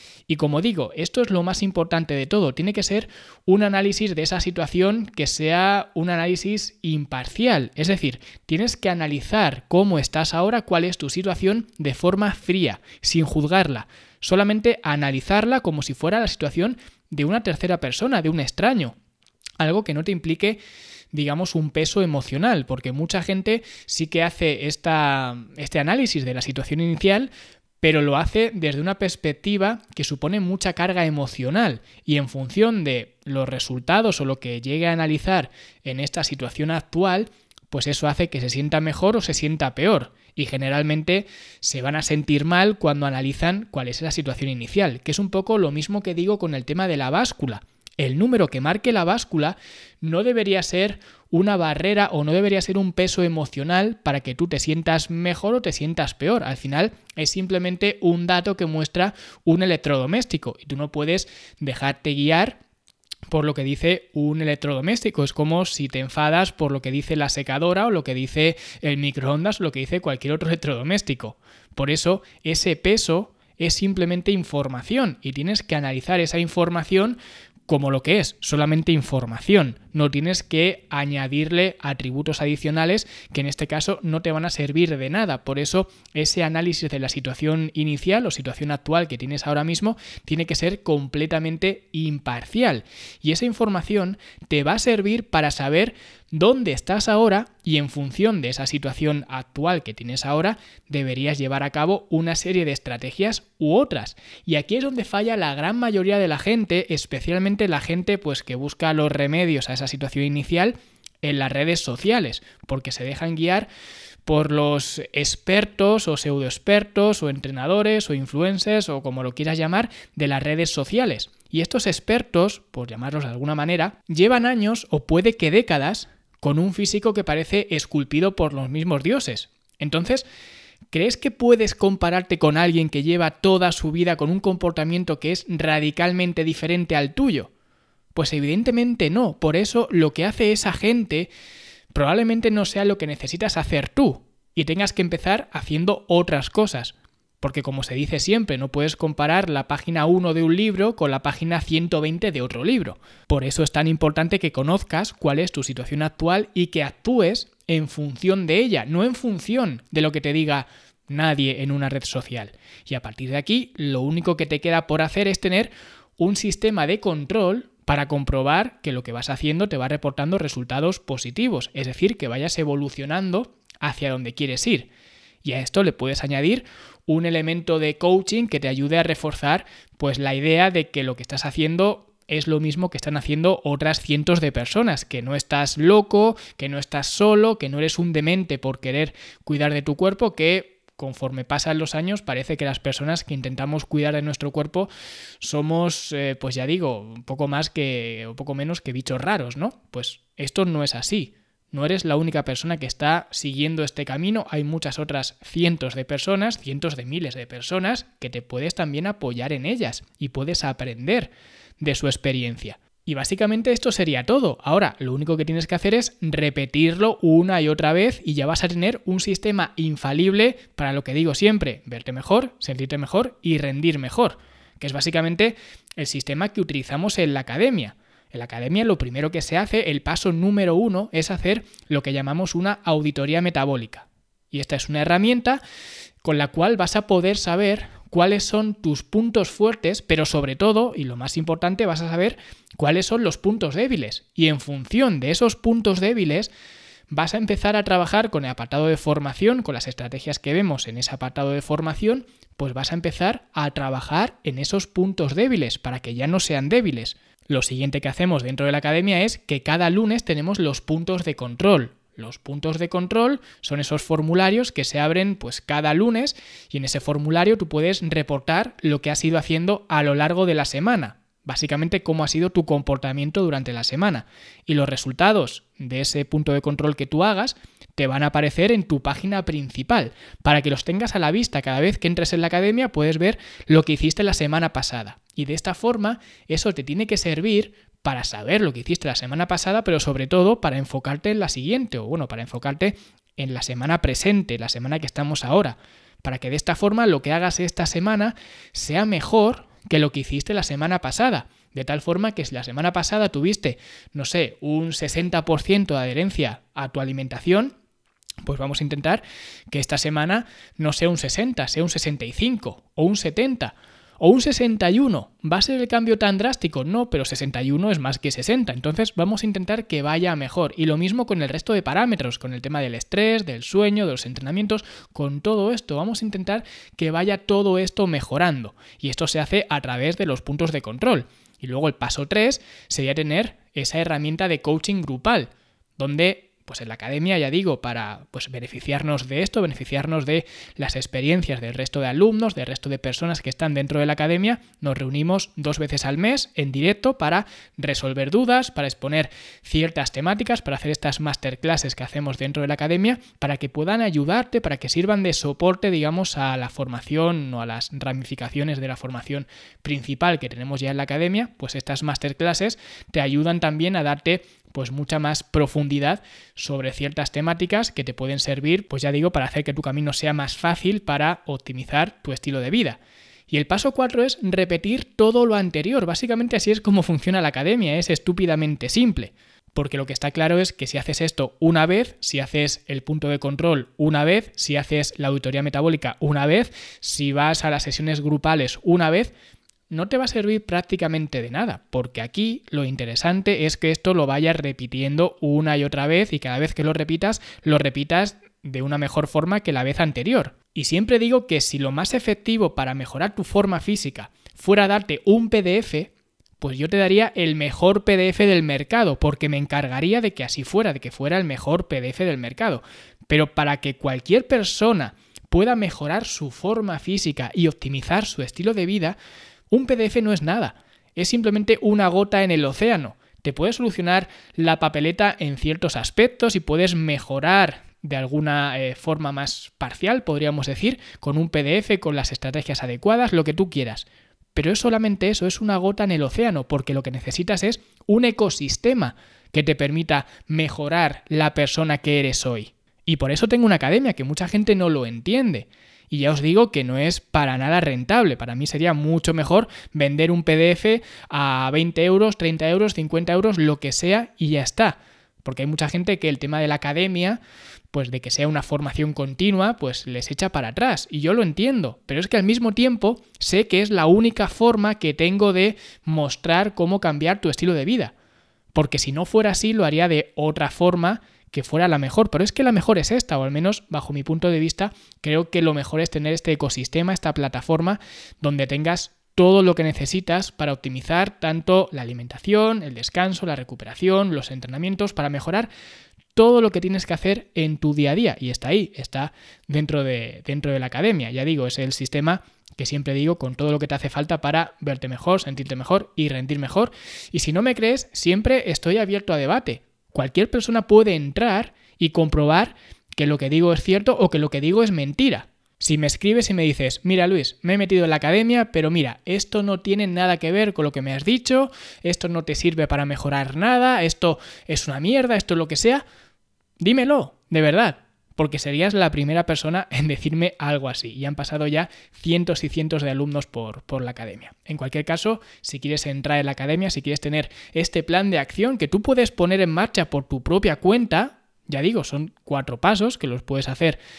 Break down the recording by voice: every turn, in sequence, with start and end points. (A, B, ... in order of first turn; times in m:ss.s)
0:00.3-0:19.0 A
0:19.6-0:20.6 A
0:21.1-0:27.3 A
0:27.8-1:02.6 A
1:03.3-1:53.7 A
1:54.3-2:10.2 A
2:10.9-2:17.5 A
2:18.2-2:21.3 A
2:21.9-2:54.9 A
2:55.4-3:55.6 A
3:56.2-4:06.5 A
4:07.1-5:07.7 A
5:08.4-6:29.3 A
6:29.9-6:59.2 A
6:59.7-7:48.1 A
7:48.7-8:05.7 A
8:06.4-8:36.0 A
8:36.8-8:54.0 A